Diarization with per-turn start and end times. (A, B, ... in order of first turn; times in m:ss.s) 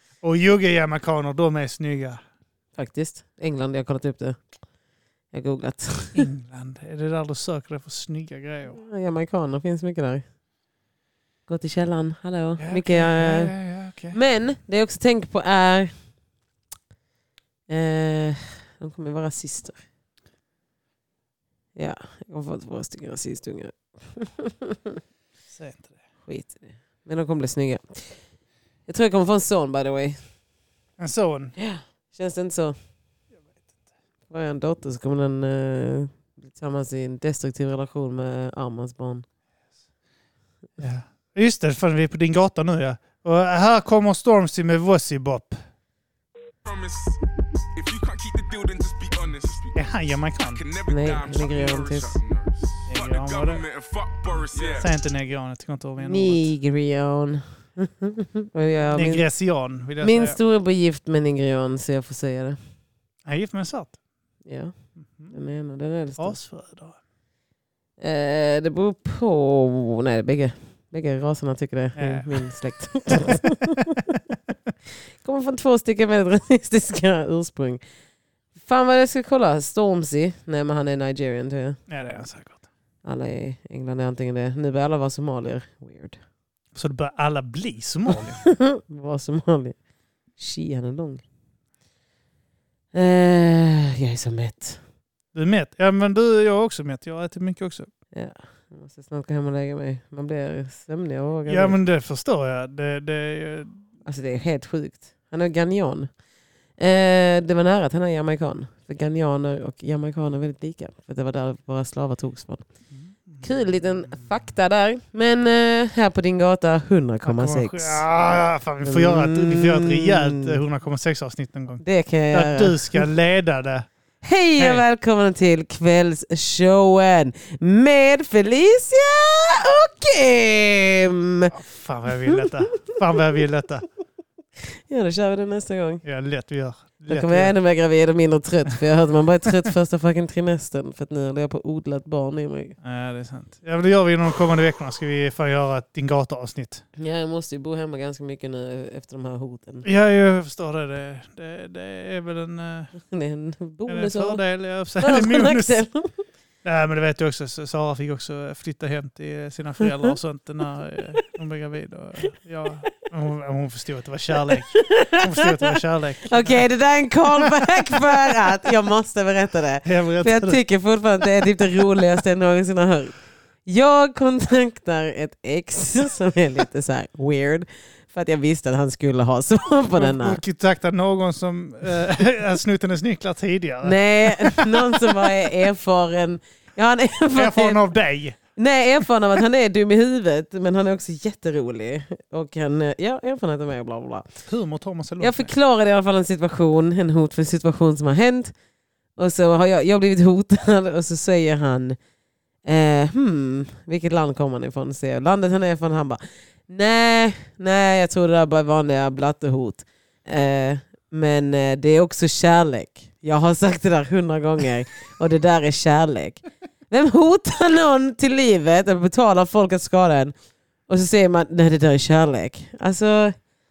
0:00.2-0:02.2 A
0:02.8-0:04.4 B
0:05.3-0:06.3 B
0:06.2-0:08.8 A
0:08.7-0:10.2 B
0:11.5-0:13.6 B
0:12.6-0:14.2 A
0:14.1-0:15.9 B
0:17.7-0:19.8 B
0:21.8-0:25.0 B
0:25.5-0:25.9 A
0:26.3-0:28.2 B
0:28.9-0:30.2 B
0:31.0-0:31.5 A
0:31.6-0:32.8 B
0:34.3-0:39.2 B
0:40.8-0:45.6 A
0:46.6-0:54.9 C
0:49.8-0:50.6 A
0:50.9-0:52.1 B
0:52.9-0:53.6 A
0:54.7-0:56.5 A
0:56.0-0:59.3 B
0:58.9-1:00.4 A
1:00.0-1:02.6 B
1:03.3-1:04.0 A
1:04.4-1:04.7 B
1:05.1-1:05.3 A
1:05.3-1:06.4 B
1:06.2-1:07.0 A
1:08.0-1:14.0 B
1:12.0-1:12.4 A
1:15.2-1:17.8 B
1:18.6-1:21.8 B
1:21.9-1:22.6 A
1:23.0-1:26.2 B
1:26.7-1:28.4 A
1:28.4-1:29.8 B
1:30.4-1:31.2 B
1:32.9-1:34.8 B
1:35.3-1:37.9 A
1:38.1-1:41.8 B
1:41.5-1:43.8 A
1:44.1-1:46.1 B
1:46.8-1:52.6 B
1:52.9-1:53.4 A
1:53.4-1:58.1 B
1:57.2-2:03.9 A
1:58.8-2:00.6 B
2:01.8-2:03.0 B
2:04.2-2:11.5 B
2:04.6-2:04.8 A
2:11.5-2:13.8 A
2:12.3-2:12.8 B
2:14.9-2:16.0 B
2:16.0-2:17.5 A
2:17.1-2:22.8 B
2:22.8-2:26.8 A
2:27.0-2:29.8 B
2:29.8-2:32.9 A
2:32.9-2:34.4 B
2:33.9-2:35.8 A
2:35.0-2:36.1 B
2:36.6-2:46.6 A
2:44.7-3:00.4 B
2:47.4-2:48.6 A
2:49.8-2:50.6 A
3:00.0-3:05.3 A
3:03.8-3:07.8 B
3:07.4-3:08.4 A
3:08.6-3:14.3 B
3:14.5-3:15.5 A
3:15.2-3:18.5 B
3:19.2-3:22.0 B
3:22.6-3:40.3 B
3:40.9-3:43.4 B